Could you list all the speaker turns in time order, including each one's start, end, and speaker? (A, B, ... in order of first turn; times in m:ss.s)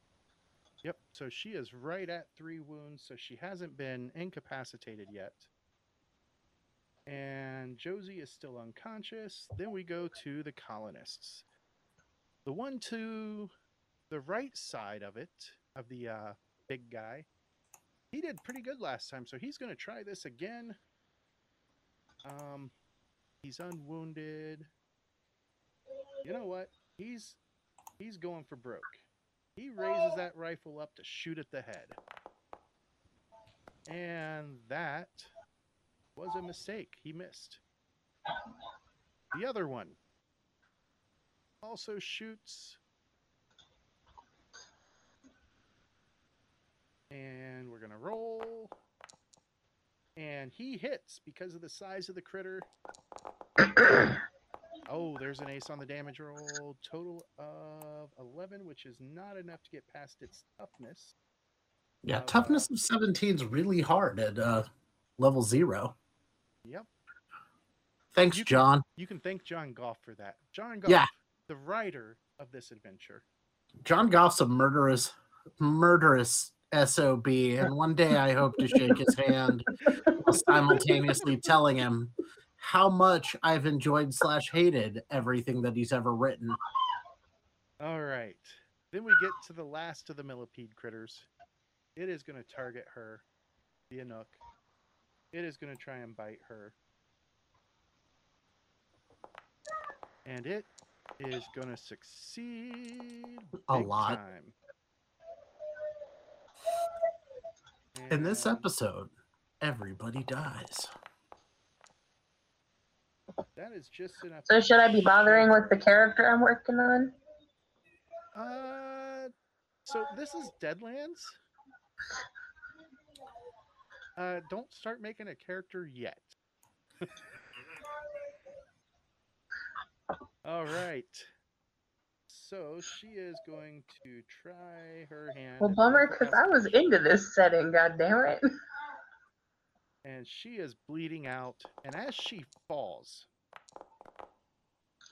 0:00.8-0:05.5 A
0:07.0-0:11.4 A
0:12.4-0:13.5 A
0:14.1-0:17.3 A
0:18.1-0:20.8 A
0:22.2-0:22.7 A
0:23.4-0:24.7 A
0:26.2-0:27.4 A
0:28.0-0:29.0 A
0:29.6-0:32.0 A
0:33.8-0:35.3 A
0:36.1-0:37.6 A
0:39.3-0:40.0 A
0:41.6-0:42.8 A
0:47.1-0:48.7 A
0:50.2-0:52.7 A
0:54.9-1:01.1 A
1:02.0-1:05.9 B
1:02.1-1:02.7 A
1:06.6-1:06.9 A
1:08.1-1:08.8 B
1:08.3-1:13.2 A
1:13.8-1:26.6 B
1:27.8-1:31.3 A
1:32.0-1:33.2 A
1:33.9-1:34.4 A
1:35.3-1:36.8 A
1:40.2-1:44.6 A
1:43.7-1:44.2 B
1:47.9-1:48.7 A
1:48.1-1:50.9 B
1:53.6-1:55.8 A
1:54.5-1:57.1 C
1:58.3-1:59.3 A
1:59.8-2:01.4 A
2:04.2-2:06.3 A
2:10.4-2:11.3 A
2:12.3-2:16.7 A
2:15.6-2:18.4 C
2:20.0-2:23.3 A